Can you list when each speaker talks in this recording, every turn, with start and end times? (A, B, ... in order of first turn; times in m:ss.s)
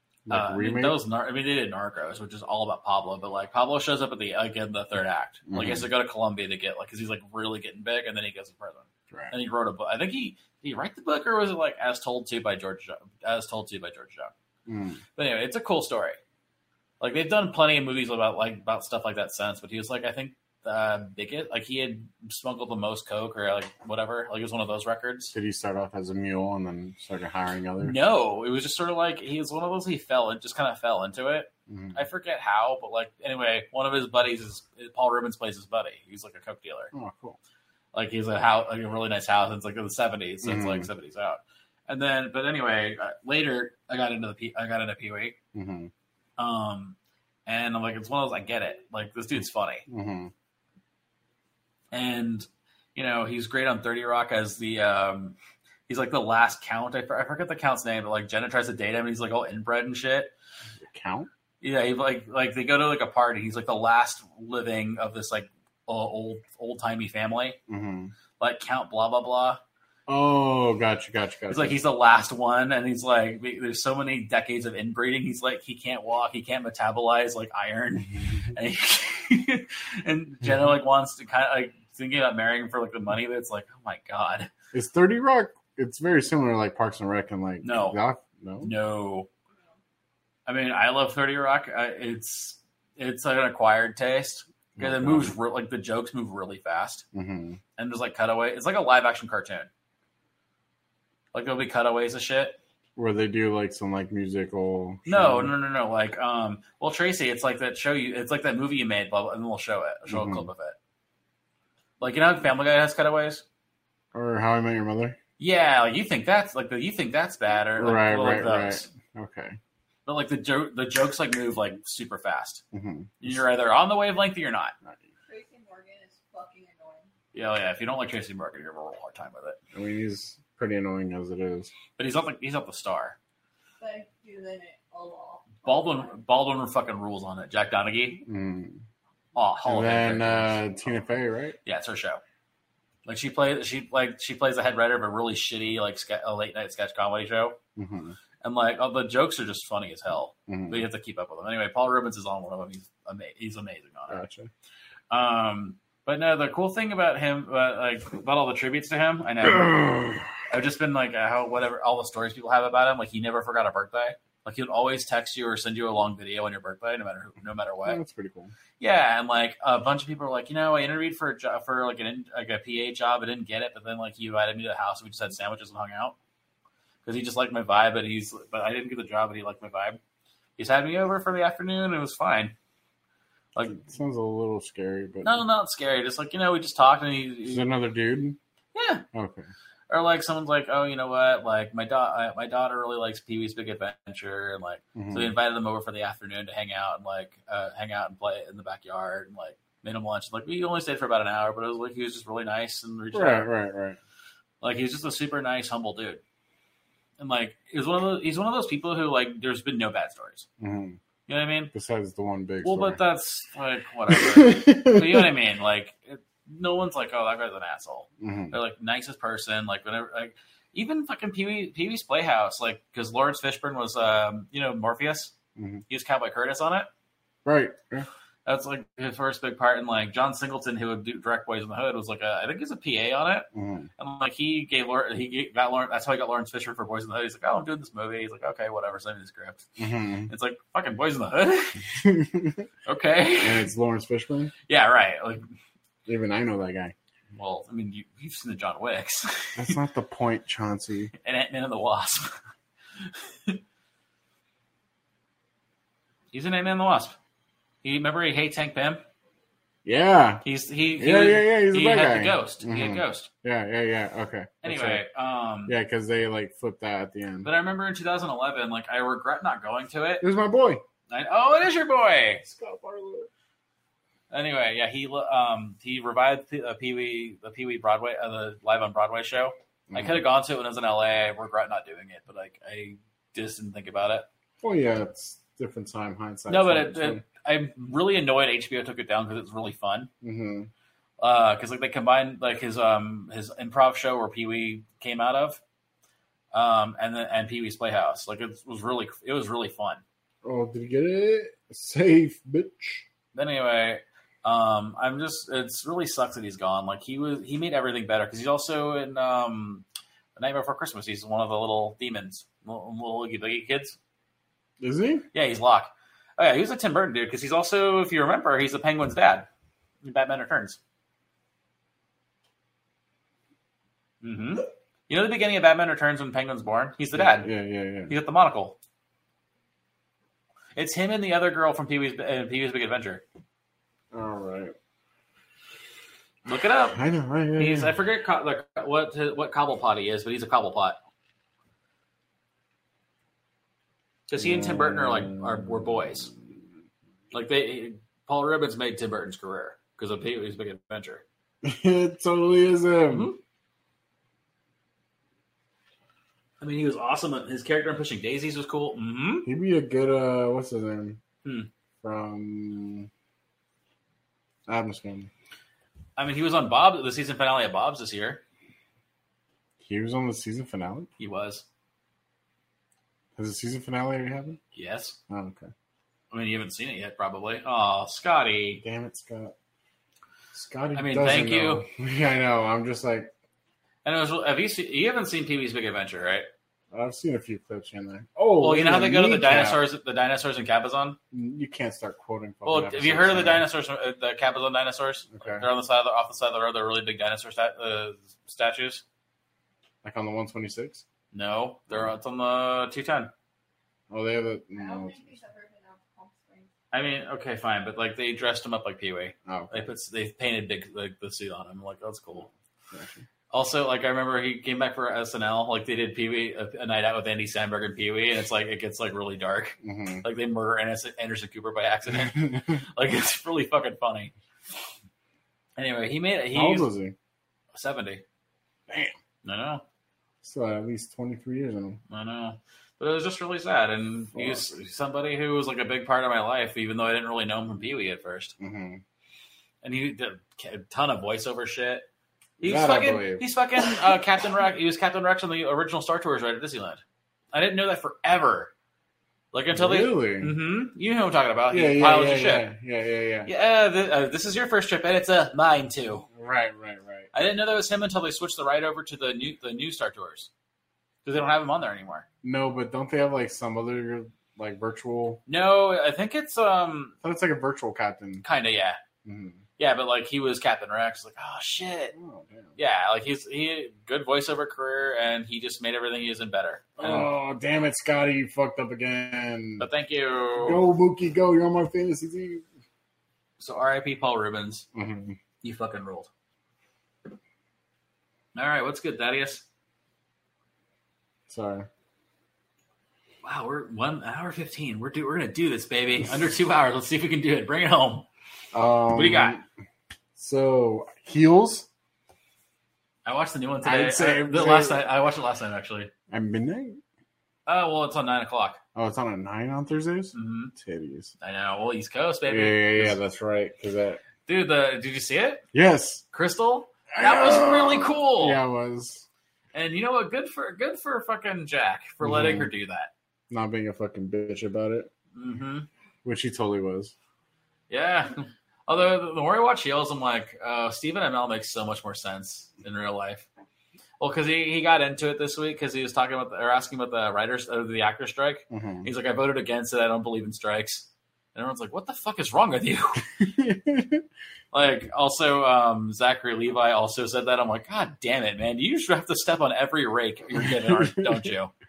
0:00.3-0:01.0 A
0:00.3-0:14.3 B
0:05.5-0:05.9 A
0:14.7-0:15.0 A
0:15.2-0:16.2 B
0:17.0-0:25.3 B
0:25.3-0:28.0 A
0:27.8-0:36.9 B
0:31.7-0:32.0 A
0:36.9-0:37.4 A
0:37.9-0:45.4 B
0:40.4-0:40.9 A
0:45.5-0:45.9 A
0:46.4-0:49.8 B
0:49.9-0:50.3 A
0:51.9-0:55.4 B
0:55.9-1:00.3 B
1:00.8-1:01.3 A
1:01.6-1:07.6 B
1:07.7-1:08.1 A
1:08.4-1:09.6 B
1:10.1-1:11.8 A
1:11.5-1:24.5 B
1:24.7-1:28.7 A
1:27.6-1:28.0 B
1:28.6-1:29.3 B
1:30.5-1:37.0 B
1:34.8-1:35.4 A
1:37.1-1:37.6 A
1:37.8-1:39.7 B
1:41.3-1:42.6 B
1:43.0-1:45.5 A
1:45.0-1:50.8 B
1:50.1-1:50.5 A
1:52.0-1:53.4 B
1:54.1-1:55.2 A
1:55.4-1:58.9 B
1:57.8-1:59.6 A
2:00.0-2:02.6 B
2:02.7-2:03.2 A
2:03.2-2:04.7 B
2:05.3-2:07.1 C
2:07.3-2:09.6 B
2:09.7-2:11.7 A
2:12.0-2:13.2 B
2:13.8-2:16.1 C
2:15.6-2:18.2 B
2:18.2-2:18.8 A
2:19.3-2:20.6 B
2:19.6-2:21.6 A
2:21.6-2:22.2 B
2:23.0-2:27.6 B
2:27.8-2:28.2 A
2:28.4-2:34.2 B
2:30.5-2:30.8 A
2:34.1-2:34.5 A
2:35.1-2:48.0 B
2:39.5-2:40.2 A
2:47.8-2:48.5 A
2:48.8-2:56.1 B
2:57.0-3:00.0 B
3:00.6-3:02.5 B
3:03.7-3:05.4 A
3:05.2-3:07.6 B
3:07.5-3:08.4 A
3:08.7-3:09.0 B
3:09.1-3:09.5 A
3:09.9-3:23.5 B
3:14.9-3:15.3 A
3:23.1-3:24.0 A
3:24.6-3:26.2 B
3:27.2-3:30.5 B
3:30.6-3:31.0 A
3:31.3-3:31.7 B
3:31.7-3:33.0 A
3:32.6-3:45.3 B
3:34.1-3:35.3 A
3:38.2-3:38.5 A
3:45.6-3:45.8 A
3:45.9-3:46.9 B
3:47.4-3:48.1 A
3:48.4-3:59.6 B
3:53.5-3:53.9 A
3:59.8-4:00.3 A
4:00.3-4:01.8 B
4:02.0-4:02.6 A
4:02.8-4:03.7 B
4:03.4-4:04.5 A
4:04.7-4:05.4 B
4:06.0-4:06.9 A
4:07.3-4:09.8 B
4:09.6-4:11.1 A
4:11.2-4:12.4 B
4:13.1-4:13.6 B
4:16.3-4:17.2 B
4:17.8-4:19.0 B
4:19.8-4:20.4 A
4:20.4-4:23.3 B
4:21.0-4:25.0 A
4:24.6-4:25.8 B
4:25.7-4:27.5 A
4:27.4-4:30.2 B
4:30.2-4:30.8 A
4:31.1-4:32.4 B
4:32.4-4:33.3 A
4:34.3-4:44.3 B
4:39.9-4:40.2 A
4:44.6-4:47.2 A
4:46.5-4:50.1 B
4:50.2-4:50.7 A
4:51.2-4:55.6 B
4:56.5-5:00.0 B
5:00.4-5:03.0 A
5:03.3-5:09.8 B
5:10.4-5:14.0 B
5:14.8-5:15.3 A
5:15.3-5:19.5 B
5:20.0-5:20.8 B
5:24.2-5:27.5 B
5:27.1-5:28.1 A
5:28.1-5:28.8 B
5:30.8-5:33.2 B
5:34.1-5:34.7 A
5:36.4-5:37.0 B
5:36.9-5:37.9 A
5:37.6-5:41.0 B
5:44.3-5:46.3 B
5:44.4-5:45.9 A
5:47.3-5:51.2 B
5:51.6-5:53.3 A
5:53.1-5:53.4 B
5:56.6-5:59.5 B
5:59.4-6:01.2 A
6:01.4-6:01.7 B
6:02.0-6:03.1 A
6:04.7-6:05.3 A
6:06.2-6:08.4 B
6:09.8-6:11.1 A
6:11.2-6:11.6 B
6:13.4-6:14.6 A
6:14.7-6:15.2 B
6:15.3-6:15.7 A
6:16.3-6:18.8 B
6:18.8-6:19.5 A
6:20.5-6:23.3 A
6:20.9-6:21.8 B
6:24.0-6:26.5 B
6:26.9-6:29.8 A
6:28.6-6:31.2 B
6:31.3-6:33.6 A
6:32.6-6:39.0 B
6:35.3-6:35.7 A
6:40.0-6:41.0 A
6:41.3-6:43.3 B
6:44.1-6:45.4 A
6:44.7-6:46.7 C
6:46.9-6:52.5 B
6:49.5-6:49.9 A
6:52.9-6:53.2 A
6:53.5-7:04.3 B
6:59.8-7:00.2 A
7:02.1-7:02.8 A
7:05.8-7:06.9 B
7:06.5-7:07.1 A
7:07.7-7:08.2 B
7:08.9-7:09.1 A
7:09.4-7:09.8 B
7:10.4-7:12.0 A
7:12.1-7:18.5 B
7:14.3-7:14.7 A
7:18.6-7:19.0 A
7:19.8-7:22.0 B
7:22.6-7:27.0 B
7:22.6-7:23.4 A
7:27.5-7:28.7 B
7:29.5-7:32.6 B
7:29.7-7:30.5 A
7:31.7-7:33.5 A
7:33.4-7:36.2 B
7:36.3-7:37.3 A
7:37.3-7:40.5 B
7:41.2-7:42.2 B
7:42.4-7:45.4 A
7:45.5-7:47.2 B
7:47.2-7:48.4 A
7:48.4-7:49.0 B
7:49.2-7:49.6 A
7:49.8-7:52.1 B
7:52.1-7:52.7 A
7:52.8-7:57.3 B
7:57.0-7:59.8 A
7:59.8-8:00.8 B
8:00.6-8:02.6 A
8:03.6-8:04.9 B
8:04.9-8:05.4 A
8:05.6-8:06.3 B
8:08.5-8:09.6 B
8:11.5-8:11.9 A
8:13.4-8:18.3 B
8:18.7-8:19.6 A
8:19.1-8:19.6 B
8:20.4-8:21.9 A
8:23.2-8:26.1 B
8:23.8-8:25.0 A
8:26.3-8:27.0 A
8:27.7-8:28.8 B
8:28.9-8:31.3 A
8:30.3-8:30.7 B
8:31.4-8:33.2 B
8:32.5-8:34.2 A
8:34.4-8:35.6 B
8:35.7-8:36.2 A
8:36.3-8:38.6 B
8:37.1-8:39.2 A
8:39.7-8:43.1 B
8:42.2-8:42.7 A
8:43.5-8:45.1 A
8:45.3-8:45.9 B
8:46.2-8:47.1 A
8:47.9-8:53.4 B
8:54.2-9:03.2 B
8:58.7-8:59.1 A
9:03.4-9:04.2 A
9:04.7-9:11.7 B
9:10.6-9:11.5 A